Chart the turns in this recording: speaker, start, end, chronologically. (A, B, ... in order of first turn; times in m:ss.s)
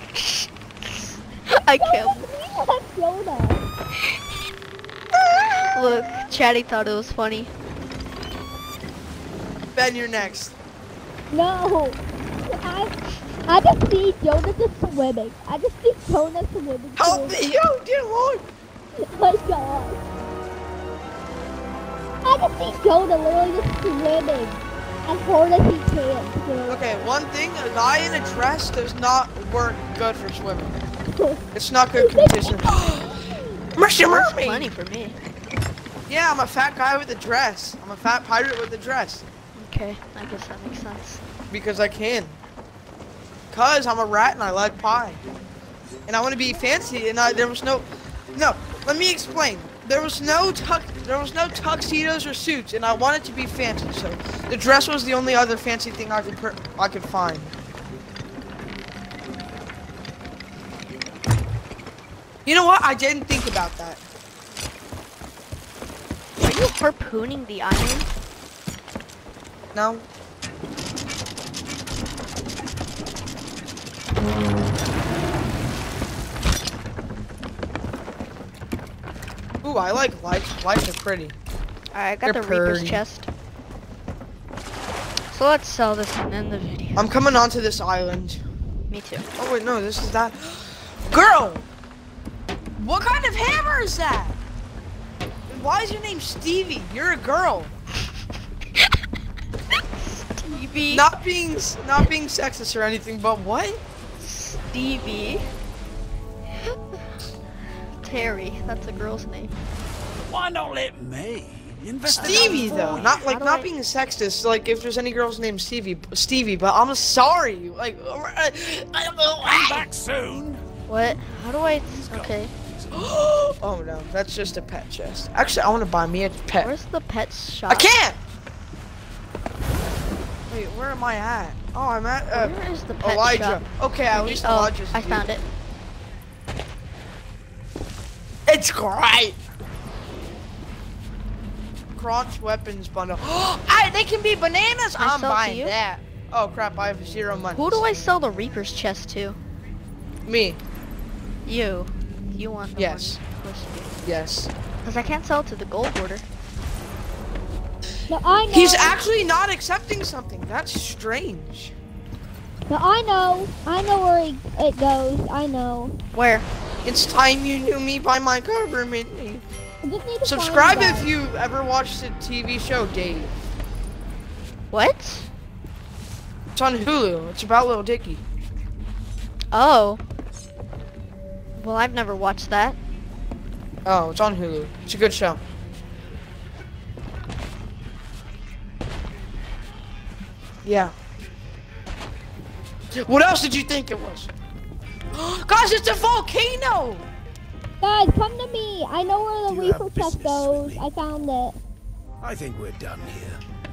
0:00.1-0:02.2 A
0:01.8-0:03.7 B
0:05.1-0:05.7 C
0:05.7-0:07.5 A
0:09.7-0:10.5 C
0:11.3-0:17.4 B
0:17.0-0:18.4 C
0:19.0-0:20.1 B
0:22.2-0:26.9 B
0:26.7-0:30.8 C
0:31.1-0:31.4 B
0:31.5-0:33.1 C
0:32.0-0:33.7 B
0:33.7-0:34.7 C
0:34.1-0:35.2 A
0:36.1-0:39.2 C
0:39.6-0:41.2 A
0:41.5-0:42.4 C
0:43.5-0:45.2 C
0:46.1-0:57.5 C
0:46.5-0:47.4 B
1:02.4-1:04.0 C
1:06.4-1:08.1 A
1:09.7-1:10.0 C
1:19.6-1:21.3 C
1:21.9-1:23.3 A
1:22.2-1:23.0 C
1:25.3-1:27.1 A
1:27.0-1:28.4 C
1:28.9-1:29.2 A
1:29.4-1:31.7 C
1:32.8-1:34.4 C
1:35.5-1:37.7 C
1:40.0-1:41.1 A
1:40.9-1:43.8 C
1:44.2-1:45.4 A
1:48.0-1:49.5 A
1:50.1-1:53.2 D
1:52.1-1:53.7 A
1:52.2-1:59.9 C
1:59.4-2:00.6 D
2:00.9-2:02.5 A
2:01.9-2:02.9 D
2:02.9-2:06.7 C
2:06.6-2:07.9 A
2:07.7-2:08.2 C
2:10.5-2:15.2 C
2:12.3-2:15.4 A
2:18.5-2:19.4 C
2:22.0-2:27.8 C
2:25.0-2:25.7 A
2:27.5-2:29.4 A
2:30.2-2:30.6 C
2:31.4-2:34.0 A
2:32.8-2:33.2 C
2:34.0-2:34.5 C
2:34.8-2:36.2 A
2:38.1-2:39.0 B
2:38.5-2:41.7 C
2:42.7-2:45.9 B
2:46.1-2:46.4 A
2:46.8-2:49.4 C
2:49.8-2:51.1 B
2:50.2-2:53.3 C
2:54.7-2:55.3 A
2:56.5-2:58.2 C
2:59.5-3:00.0 A
3:01.6-3:02.8 A
3:03.8-3:05.4 C
3:10.6-3:10.9 C
3:12.9-3:14.3 C
3:15.1-3:17.0 C
3:17.8-3:21.6 B
3:19.5-3:20.8 D
3:22.2-3:23.4 D